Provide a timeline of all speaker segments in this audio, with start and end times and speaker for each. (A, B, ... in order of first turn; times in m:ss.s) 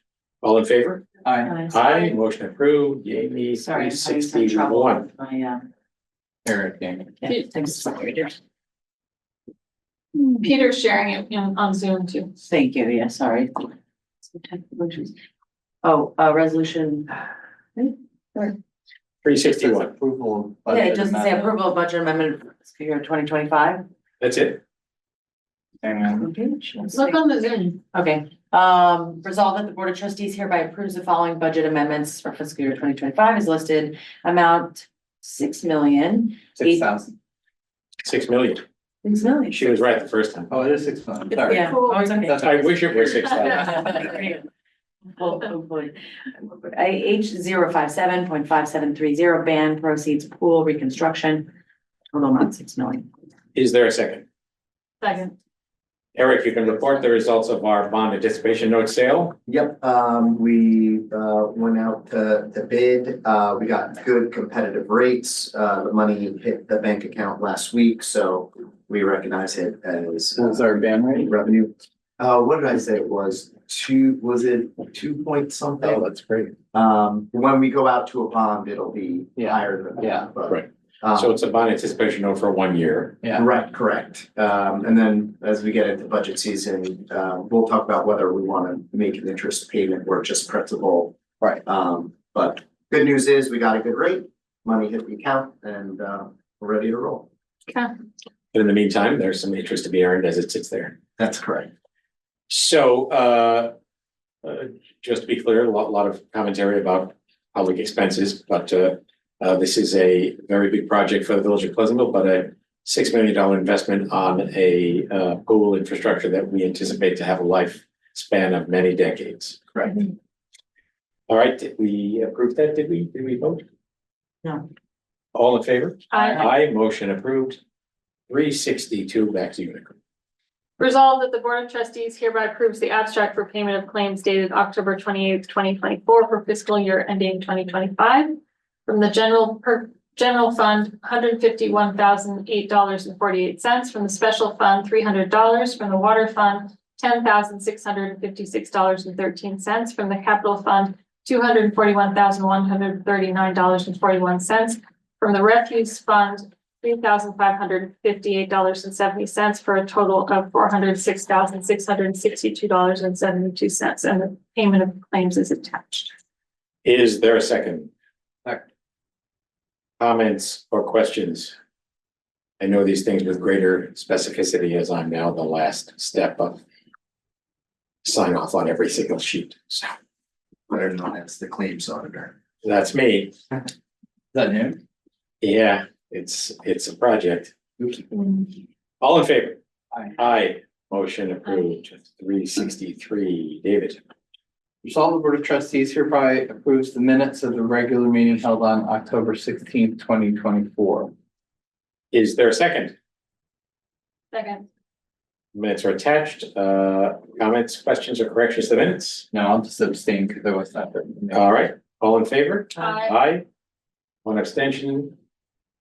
0:00.4-0:01.1 A
0:01.2-0:01.5 B
0:01.5-0:01.9 C
0:01.7-0:05.1 A
0:03.6-0:05.6 C
0:06.4-0:07.3 B
0:07.2-0:08.4 C
0:10.1-0:12.3 D
0:12.4-0:13.7 C
0:14.3-0:15.1 C
0:15.8-0:17.1 C
0:17.8-0:18.6 C
0:19.2-0:19.9 A
0:19.4-0:21.6 B
0:20.7-0:23.8 C
0:24.2-0:24.6 A
0:25.8-0:26.3 B
0:26.2-0:36.9 C
0:26.9-0:27.5 D
0:36.6-0:37.1 B
0:38.0-0:38.6 A
0:39.0-0:39.8 C
0:39.5-0:40.5 A
0:40.5-0:43.6 B
0:41.4-0:42.6 C
0:41.5-0:42.2 D
0:42.3-0:43.8 A
0:43.5-0:44.4 C
0:45.2-0:51.5 C
0:52.1-0:53.0 C
0:53.5-0:54.2 A
0:55.0-0:55.3 D
0:56.1-0:59.4 A
0:59.5-1:16.0 E
1:10.4-1:11.4 B
1:15.8-1:16.5 A
1:16.7-1:21.4 E
1:19.4-1:20.3 B
1:20.5-1:23.2 A
1:23.3-1:37.3 E
1:38.5-1:41.0 A
1:41.2-1:41.7 E
1:42.5-1:43.7 A
1:44.4-1:59.7 A
2:01.3-2:03.6 A
2:05.3-2:07.6 A
2:06.1-2:06.5 D
2:08.3-2:09.9 A
2:10.8-2:46.1 D
2:46.8-2:47.9 A
2:50.0-2:51.6 A
2:52.6-2:56.6 A
2:58.0-2:59.9 A
3:00.7-3:02.3 E
3:02.6-3:03.4 A
3:04.3-3:04.8 B
3:05.4-3:08.0 A
3:08.1-3:08.5 D
3:09.0-3:09.6 A
3:10.2-3:14.0 A
3:14.8-3:21.1 B
3:22.1-3:22.9 A
3:24.3-3:24.7 D
3:25.5-3:29.2 A
3:29.3-3:31.4 B
3:31.3-3:33.4 A
3:32.8-3:33.2 D
3:34.2-3:35.2 A